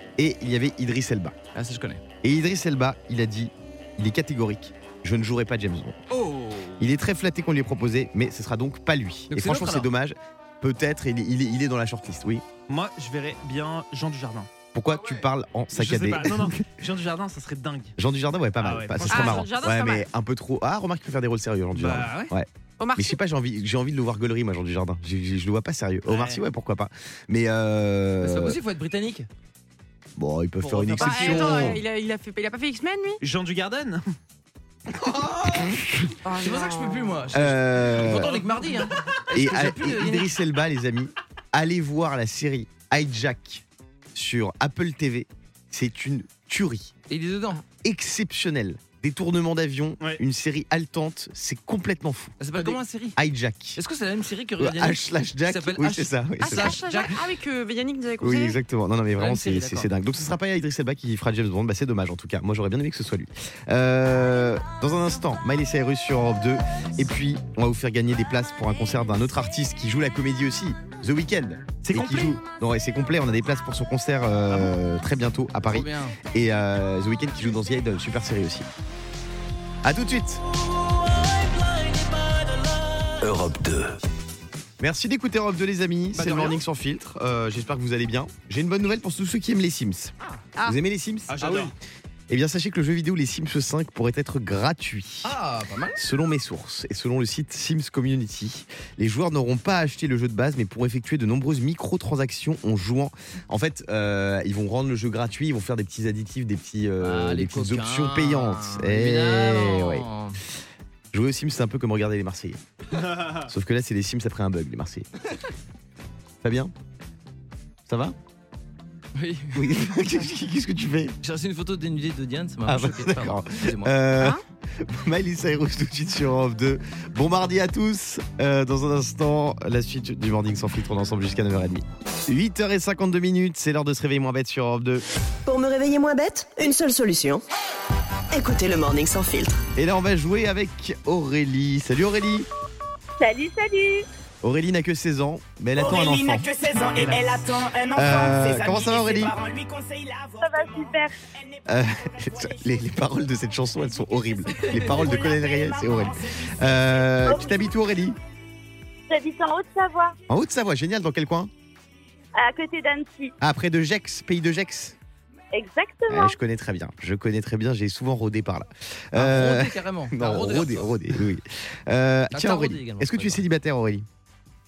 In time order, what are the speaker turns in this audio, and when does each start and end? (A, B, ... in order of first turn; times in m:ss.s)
0:00.2-0:01.4 A
0:01.5-0:02.0 B
0:02.2-0:06.0 A
0:06.1-0:06.8 B
0:06.8-0:12.4 A
0:09.3-0:09.9 B
0:12.7-0:14.5 C
0:14.7-0:16.6 A
0:15.7-0:18.0 C
0:18.0-0:28.6 A
0:18.6-0:19.5 C
0:19.1-0:20.1 D
0:21.8-0:22.3 C
0:22.8-0:23.2 D
0:26.1-0:26.4 C
0:28.2-0:29.3 B
0:30.2-0:31.8 A
0:30.6-0:31.7 B
0:31.0-0:33.2 D
0:33.2-0:34.0 C
0:35.0-0:35.8 B
0:36.2-0:37.3 D
0:36.4-0:40.3 B
0:37.3-0:38.4 A
0:39.3-0:46.9 A
0:47.1-0:47.6 B
0:47.8-0:53.8 A
0:52.4-0:53.2 B
0:53.8-0:57.1 B
0:54.6-0:56.8 A
0:56.4-0:58.6 D
0:58.2-1:18.7 A
0:59.2-0:59.9 B
1:11.8-1:12.4 C
1:15.7-1:16.2 B
1:19.8-1:20.4 A
1:23.2-1:24.0 E
1:24.8-1:31.5 A
1:26.1-1:26.6 B
1:31.3-1:31.7 C
1:31.4-1:31.7 B
1:32.3-1:35.4 A
1:35.2-1:36.0 B
1:36.0-1:50.1 A
1:47.0-1:50.4 B
1:51.1-1:52.6 A
1:53.3-1:55.1 A
1:56.4-1:56.7 A
1:57.9-1:58.2 A
1:59.2-1:59.7 B
1:59.5-2:01.2 A
2:01.2-2:04.0 B
2:02.7-2:15.0 A
2:15.5-2:17.4 E
2:18.3-2:19.5 E
2:19.8-2:22.5 A
2:23.2-2:24.1 F
2:24.4-2:26.5 A
2:26.9-2:27.4 C
2:27.9-2:29.4 A
2:28.8-2:30.3 G
2:30.4-2:31.2 F
2:31.7-2:38.2 A
2:34.6-2:35.4 G
2:37.2-2:37.7 F
2:39.1-2:40.2 F
2:40.3-2:41.5 A
2:42.4-2:43.4 F
2:43.4-2:45.0 A
2:45.5-2:46.4 F
2:46.1-2:54.1 A
2:49.2-2:50.9 B
2:52.3-2:53.4 B